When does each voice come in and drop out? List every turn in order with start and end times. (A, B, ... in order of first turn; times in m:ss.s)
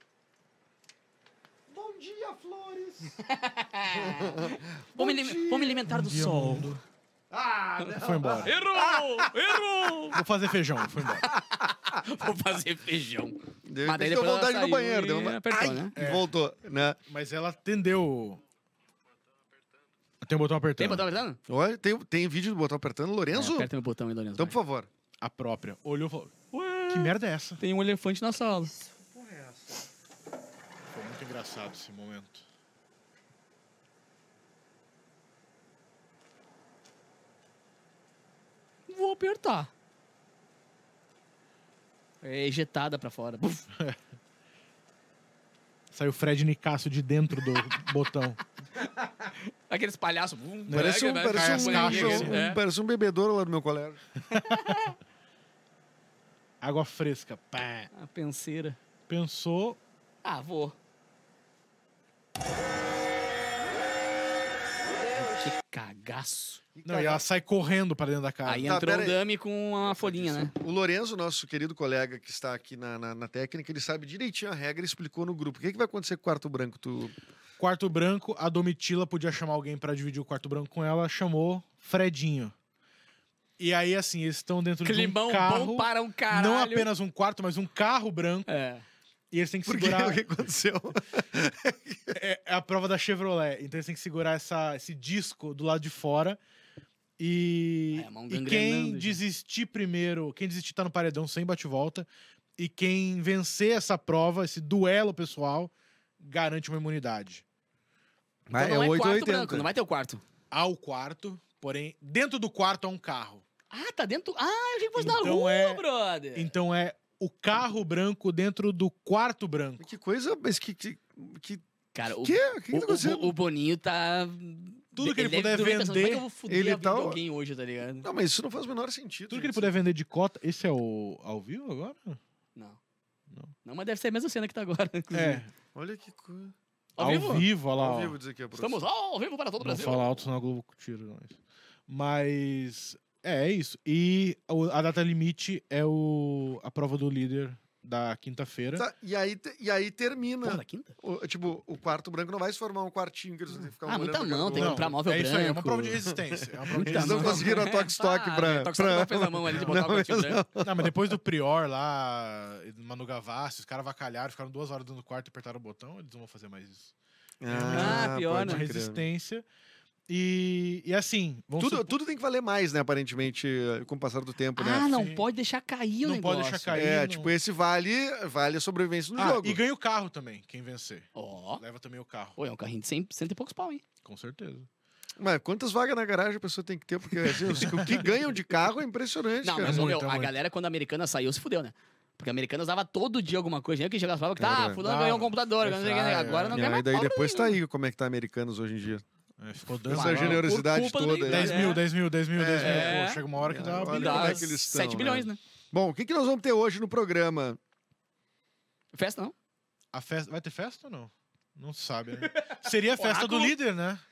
0:01.7-0:03.2 A
0:03.2-0:06.8 B
0:03.9-0:05.8 A
0:05.9-0:06.8 C
0:07.3-0:09.5 A
0:07.8-0:10.2 B
0:07.9-0:08.6 C
0:10.1-0:11.3 C
0:11.2-0:15.9 B
0:13.6-0:17.0 A
0:16.0-0:16.3 C
0:17.1-0:18.4 C
0:20.2-0:21.2 C
0:20.8-0:21.4 B
0:21.5-0:23.7 A
0:23.3-0:24.6 B
0:24.4-0:24.9 A
0:25.2-0:26.3 C
0:26.5-0:28.7 B
0:26.9-0:27.6 C
0:29.1-0:29.6 A
0:30.9-0:32.4 C
0:38.9-0:39.7 B
0:42.2-0:43.6 B
0:45.9-0:48.4 C
0:49.2-0:52.6 B
0:50.7-0:52.4 C
0:50.7-0:54.0 A
0:54.3-0:54.9 B
0:54.3-0:54.6 C
0:56.6-0:57.9 C
0:57.9-0:58.8 B
0:59.1-0:59.8 C
1:00.2-1:00.8 B
1:05.2-1:06.6 B
1:06.8-1:07.2 A
1:06.8-1:08.7 C
1:08.4-1:10.5 B
1:08.6-1:09.2 A
1:09.9-1:10.4 C
1:10.5-1:17.1 A
1:17.6-1:22.5 C
1:23.6-1:28.5 C
1:24.8-1:26.9 B
1:28.5-1:28.8 B
1:29.3-1:30.2 C
1:29.6-1:32.2 A
1:32.1-1:36.4 C
1:37.2-1:47.4 C
1:37.9-1:39.2 B
1:48.5-1:49.7 A
1:48.5-1:50.2 B
1:50.5-1:53.4 C
1:53.7-1:56.5 B
1:55.0-1:59.9 C
1:59.8-2:03.3 A
2:01.9-2:08.1 B
2:04.9-2:06.3 C
2:06.5-2:07.2 A
2:08.0-2:09.7 A
2:09.3-2:12.2 C
2:13.6-2:15.4 B
2:15.1-2:15.5 C
2:15.7-2:16.5 A
2:17.0-2:17.5 B
2:17.0-2:18.2 C
2:17.8-2:18.8 A
2:18.5-2:20.2 B
2:19.6-2:21.4 C
2:21.9-2:28.8 C
2:28.7-2:34.9 A
2:30.4-2:31.0 B
2:33.8-2:35.9 B
2:34.5-2:37.6 C
2:36.0-2:41.1 A
2:36.8-2:40.4 B
2:40.6-2:46.9 C
2:47.4-2:49.0 A
2:47.4-2:49.4 C
2:47.7-2:48.6 B
2:50.1-2:51.9 C
2:51.6-2:55.0 A
2:54.6-2:56.8 B
2:54.8-2:55.2 C
2:56.0-2:57.3 C
2:56.7-2:59.6 A
2:59.2-3:02.4 C
3:01.2-3:01.6 B
3:02.4-3:03.8 B
3:04.0-3:04.7 C
3:05.2-3:09.9 A
3:07.4-3:08.1 C
3:09.4-3:17.6 B
3:09.6-3:10.3 C
3:14.4-3:15.3 A
3:15.6-3:16.6 C
3:16.5-3:19.0 A
3:19.4-3:20.5 C
3:19.9-3:21.8 A
3:19.9-3:21.8 B
3:21.3-3:24.5 C
3:22.3-3:27.6 A
3:22.6-3:23.2 B
3:23.9-3:25.4 B
3:28.9-3:29.3 B
3:29.9-3:34.0 C
3:32.3-3:33.5 B